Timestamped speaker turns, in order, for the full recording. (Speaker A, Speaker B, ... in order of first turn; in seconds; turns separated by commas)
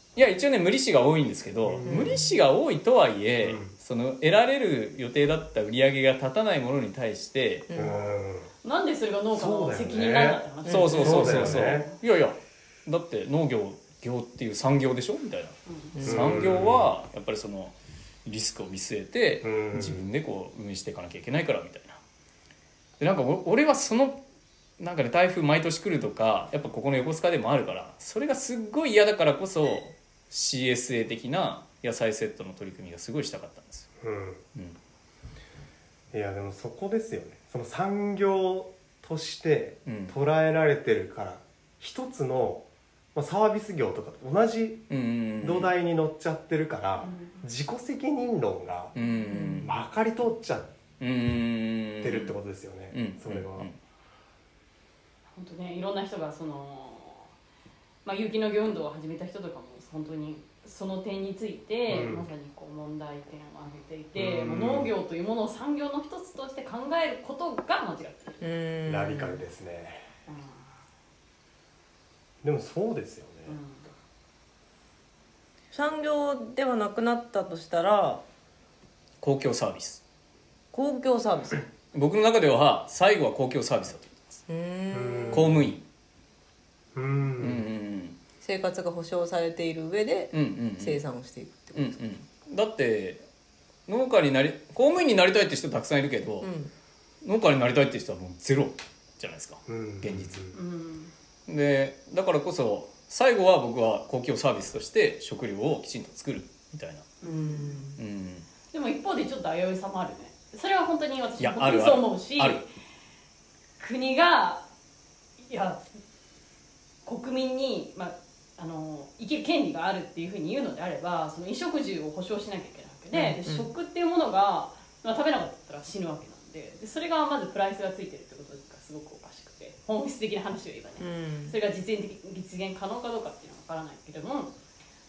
Speaker A: 0.2-7.7, Speaker B: 1.6-2.2, Speaker C: 1.9-2.3, Speaker B: 3.4-3.7, Speaker C: 7.7-8.0, Speaker B: 7.7-8.5, Speaker D: 8.6-12.0, Speaker B: 9.3-11.9, Speaker C: 10.7-11.3, Speaker A: 10.7-17.7, Speaker D: 15.7-16.0, Speaker C: 16.0-16.2, Speaker B: 16.0-16.9, Speaker A: 18.2-22.0, Speaker B: 19.4-20.1, Speaker A: 23.0-24.2, Speaker A: 24.8-33.9, Speaker B: 34.0-34.4, Speaker B: 36.1-44.9, Speaker A: 39.9-40.1, Speaker A: 44.9-45.7, Speaker B: 45.4-48.9, Speaker D: 47.0-47.4, Speaker A: 49.0-49.8, Speaker C: 49.3-49.7, Speaker B: 49.6-50.7, Speaker A: 51.0-52.4, Speaker B: 52.0-53.7, Speaker A: 52.9-53.8, Speaker D: 55.3-57.3, Speaker D: 58.0-68.4, Speaker B: 61.9-62.3, Speaker B: 64.2-64.9, Speaker C: 68.4-69.4, Speaker B: 68.9-70.1, Speaker D: 70.3-70.6, Speaker B: 72.4-73.6, Speaker D: 73.5-73.9, Speaker C: 75.7-78.2, Speaker A: 79.2-80.0, Speaker C: 80.7-81.7, Speaker A: 81.9-84.3, Speaker C: 84.5-85.5, Speaker B: 84.9-85.7, Speaker A: 85.3-85.8, Speaker B: 87.0-87.7, Speaker A: 87.4-88.2, Speaker C: 88.4-92.0, Speaker A: 90.3-91.0, Speaker A: 91.7-93.2, Speaker A: 93.9-96.5, Speaker C: 96.4-96.7, Speaker A: 97.2-100.5, Speaker B: 99.7-100.6, Speaker D: 100.5-101.1, Speaker A: 101.5-107.1, Speaker D: 107.2-107.8, Speaker C: 107.3-108.0, Speaker A: 108.0-108.5, Speaker D: 108.7-112.7, Speaker A: 111.4-112.6, Speaker D: 113.8-114.7, Speaker D: 115.4-115.9, Speaker D: 117.0-134.5, Speaker C: 123.1-123.7, Speaker C: 131.0-131.5